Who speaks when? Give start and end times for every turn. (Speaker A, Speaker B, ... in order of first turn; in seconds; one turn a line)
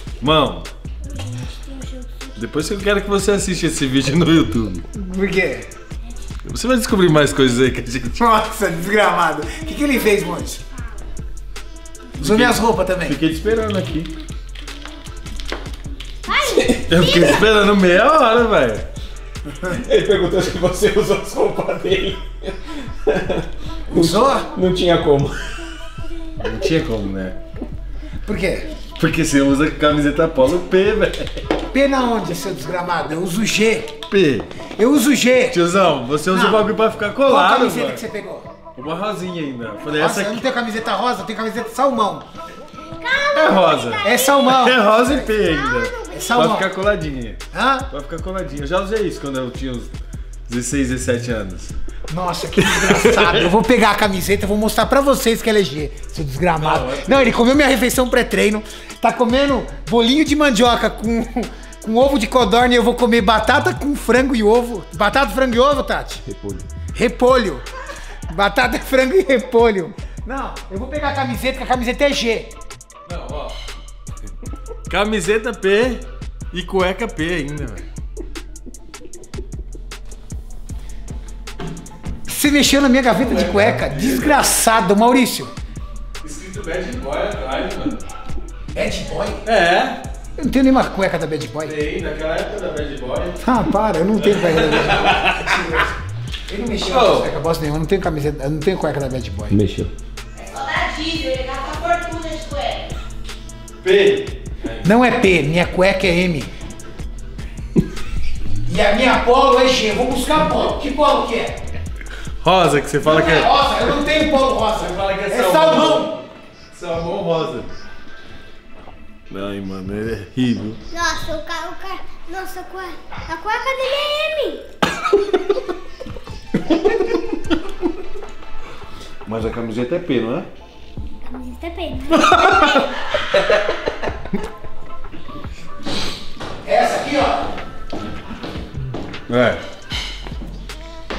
Speaker A: 0.2-0.7
Speaker B: 1.1-2.2
Speaker A: 2.4-4.8
Speaker C: 4.9-5.7
Speaker A: 6.4-8.2
Speaker C: 8.2-10.6
Speaker C: 12.2-13.2
Speaker A: 12.2-14.1
Speaker B: 16.3-17.4
Speaker D: 16.4-17.2
Speaker A: 16.9-18.9
Speaker D: 19.6-25.6
Speaker C: 23.9-24.5
Speaker A: 26.4-27.4
Speaker C: 28.2-28.7
Speaker A: 28.9-31.5
Speaker C: 31.7-34.0
Speaker A: 34.1-34.5
Speaker C: 34.7-35.6
Speaker A: 35.5-38.0
Speaker C: 36.2-36.7
Speaker C: 37.2-38.5
Speaker A: 38.7-40.5
Speaker C: 39.9-42.2
Speaker B: 43.0-44.6
Speaker A: 43.3-49.9
Speaker C: 44.0-45.3
Speaker B: 45.4-46.3
Speaker C: 46.1-46.7
Speaker C: 47.5-47.9
Speaker A: 50.5-51.7
Speaker C: 52.1-66.2
Speaker A: 52.6-53.5
Speaker A: 56.6-57.5
Speaker D: 66.3-66.7
Speaker C: 66.9-67.7
Speaker C: 68.3-72.5
Speaker A: 73.0-73.5
Speaker A: 74.9-77.8
Speaker C: 82.3-85.5
Speaker A: 83.2-84.5
Speaker A: 86.2-88.0
Speaker C: 88.7-89.4
Speaker A: 89.4-90.0
Speaker C: 90.4-91.8
Speaker A: 91.6-93.4
Speaker C: 93.4-99.6
Speaker A: 94.2-95.8
Speaker A: 96.9-97.3
Speaker D: 99.5-99.9
Speaker E: 100.3-103.0
Speaker A: 103.8-104.9
Speaker C: 104.8-106.5
Speaker C: 108.6-111.6
Speaker A: 112.4-113.5
Speaker C: 113.0-116.2
Speaker A: 114.8-117.7
Speaker A: 119.3-120.8
Speaker B: 120.9-124.6
Speaker A: 129.2-130.5
Speaker B: 131.2-132.9
Speaker A: 132.2-132.9
Speaker C: 136.6-137.5
Speaker A: 139.3-139.6